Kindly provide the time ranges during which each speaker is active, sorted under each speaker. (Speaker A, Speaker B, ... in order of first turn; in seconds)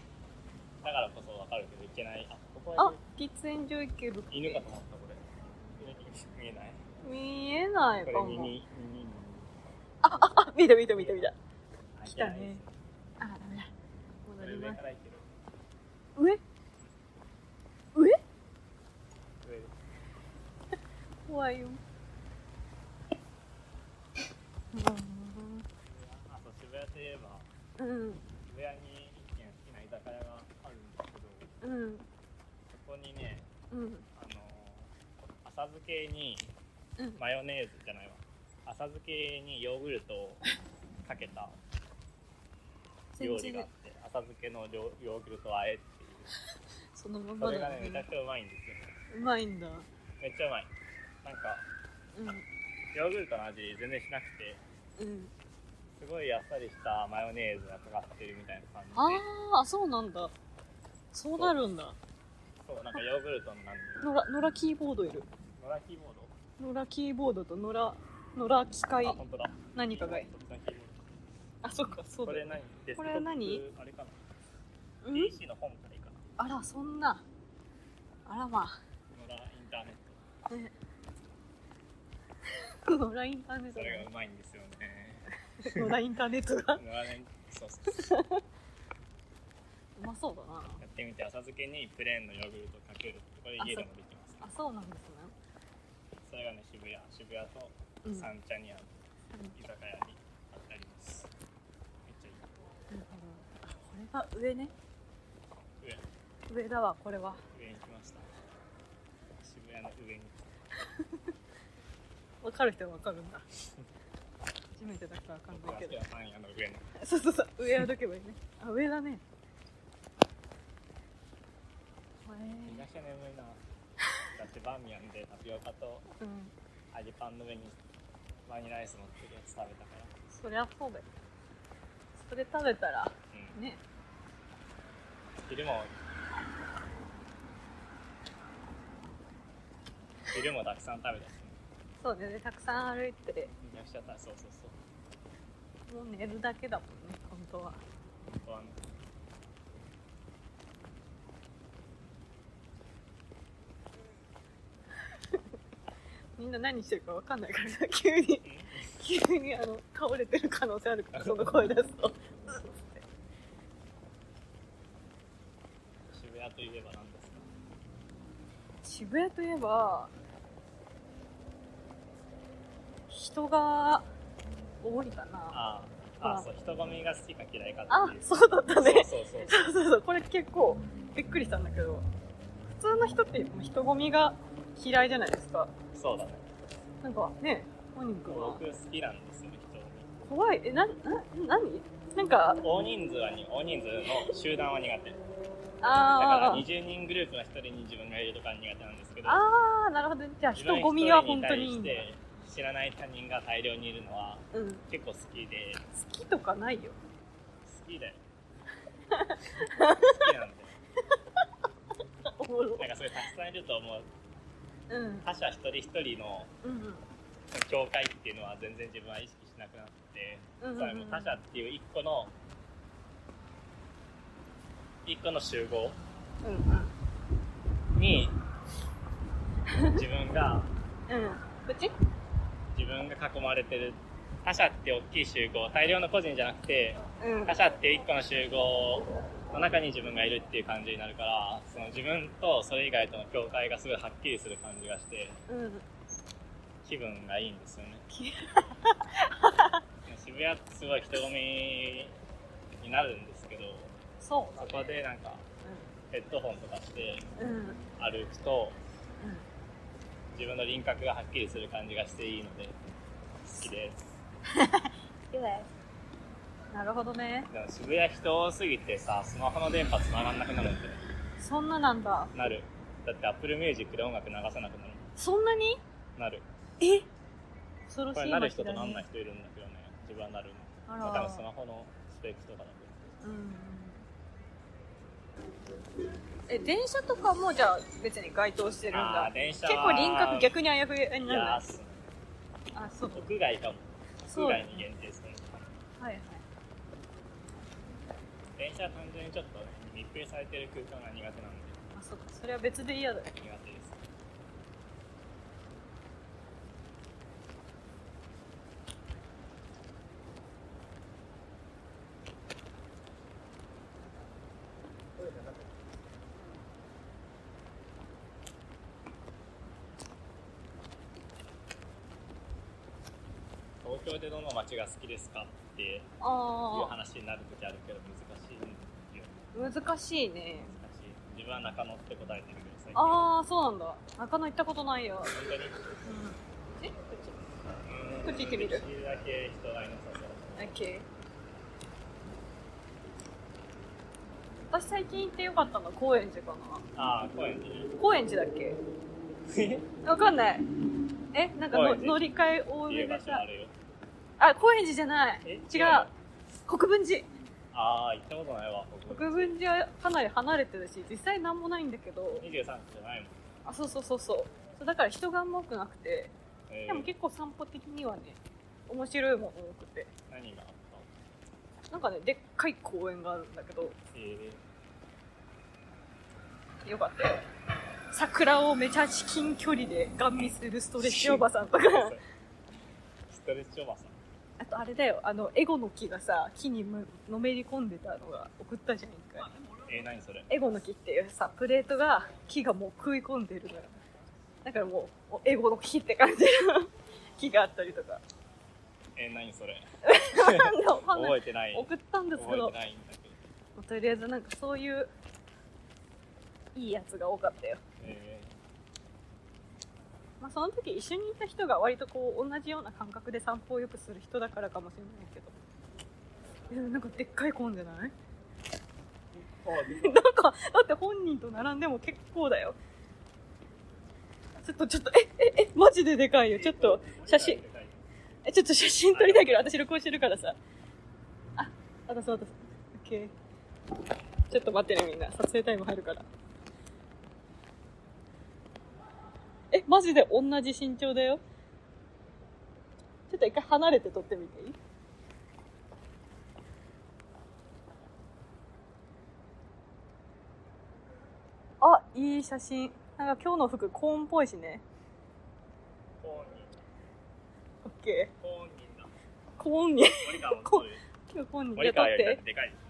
Speaker A: 0.8-3.0, 4.3-5.2, 5.8-6.8, 8.1-9.6, 10.9-11.3, 11.9-12.7, 14.4-15.3, 19.4-19.7, 25.9-27.5, 28.4-31.5, 32.7-33.5, 34.1-36.5, 37.1-40.4, 41.0-41.6, 43.2-46.3, 47.4-48.9, 50.2-50.7, 51.2-51.6, 52.9-54.6, 56.0-59.2, 62.6-64.1, 65.6-66.3, 69.0-71.0, 72.2-74.2, 75.1-76.2, 79.1-80.2, 83.7-85.9, 86.7-88.1, 90.8-94.5, 96.2-98.9, 99.5-101.3, 102.0-102.5, 105.8-106.0, 107.5-108.3, 109.4-110.4, 115.5-116.9, 122.7-123.6, 124.3-126.0, 126.9-127.8, 128.5-130.1, 133.3-133.6, 135.5-135.9, 140.3-141.6, 143.6-144.8, 148.3-148.8, 158.4-159.0, 166.1-167.5, 175.5-179.6, 185.9-186.5, 188.3-190.1, 192.6-195.2, 196.2-199.4, 200.5-205.9, 207.6-208.2, 209.6-210.8, 212.8-214.1, 215.2-216.5, 217.5-222.3, 225.0-226.0, 227.9-228.4, 229.8-230.7, 232.7-245.4, 246.8-248.0, 250.0-252.1, 252.8-253.9, 254.5-255.4, 256.1-257.2, 258.0-258.8, 260.3-262.8, 263.4-264.2, 267.5-271.0, 272.3-275.1, 276.1-276.4, 278.1-283.0, 288.9-290.5, 291.2-292.1, 293.1-295.7, 298.6-301.8, 303.4-304.0, 323.8-326.1, 326.7-329.5, 330.6-333.3, 335.3-335.8, 337.8-340.7, 346.9-347.9, 349.4-349.9, 351.7-352.2, 352.9-353.7, 355.4-356.1, 357.7-359.6, 362.4-363.5, 366.7-367.1, 370.3-371.1, 374.1-374.6, 380.4-382.2, 383.3-384.2, 389.9-390.5, 399.1-403.4, 408.0-408.5, 419.3-420.2, 426.5-428.0, 429.1-429.8, 456.2-456.8, 458.4-459.1, 460.1-461.0, 461.8-462.8
Speaker B: 2.8-4.6, 7.0-8.5, 10.0-11.3, 12.1-12.6, 13.2-13.7, 14.2-14.8, 16.1-16.4, 17.9-18.2, 21.2-21.8, 24.7-25.6, 27.8-28.2, 31.6-32.0, 33.7-34.0, 43.1-43.7, 46.9-48.0, 49.1-49.9, 52.1-52.4, 55.0-55.3, 58.9-60.3, 61.1-62.0, 64.0-65.3, 66.6-69.2, 69.7-70.3, 71.6-73.6, 75.0-75.3, 76.4-77.2, 78.2-78.8, 82.7-84.1, 85.6-86.8, 87.9-88.4, 90.0-90.8, 93.6-93.9, 94.4-95.3, 98.0-98.3, 102.9-104.7, 106.5-107.4, 111.0-111.3, 112.4-113.4, 114.8-116.0, 117.0-119.2, 122.2-122.8, 126.2-126.5, 130.3-131.1, 132.2-133.8, 142.0-143.5, 145.9-147.8, 155.1-155.4, 156.4-163.0, 168.8-170.1, 173.1-174.1, 174.8-175.6, 176.2-176.4, 177.9-182.1, 182.8-185.7, 187.0-188.6, 190.3-192.6, 195.8-196.6, 199.2-202.0, 204.5-204.8, 206.0-207.0, 209.1-210.3, 212.2-212.9, 214.9-215.3, 216.6-217.0, 220.6-221.3, 226.4-226.9, 229.7-230.0, 231.1-231.9, 237.2-237.6, 245.5-245.8, 248.1-249.8, 254.2-254.9, 257.4-257.8, 259.2-259.4, 264.5-265.7, 266.7-267.5, 271.4-272.3, 275.2-275.8, 276.8-277.1, 277.9-279.0, 280.9-281.4, 283.2-284.0, 286.5-291.6, 292.7-293.2, 294.3-294.9, 296.0-296.4, 301.9-303.3, 326.2-326.9, 329.5-330.7, 332.9-335.3, 336.0-337.3, 338.2-338.8, 340.6-341.1, 344.7-346.8, 348.0-348.8, 350.0-350.7, 351.3-353.4, 354.4-356.1, 356.6-357.3, 359.1-362.4, 363.6-366.3, 366.9-370.1, 371.9-373.9, 376.8-377.4, 378.1-382.2, 384.6-389.5, 390.5-393.9, 394.6-398.2, 400.0-402.8, 403.8-405.1, 406.7-407.8, 410.4-415.6, 416.7-418.1, 419.8-422.8, 424.6-427.6, 428.4-430.6, 431.6-433.3, 434.5-436.2, 439.7-441.4, 443.3-444.8, 451.8-454.8, 457.8-458.3, 459.6-462.4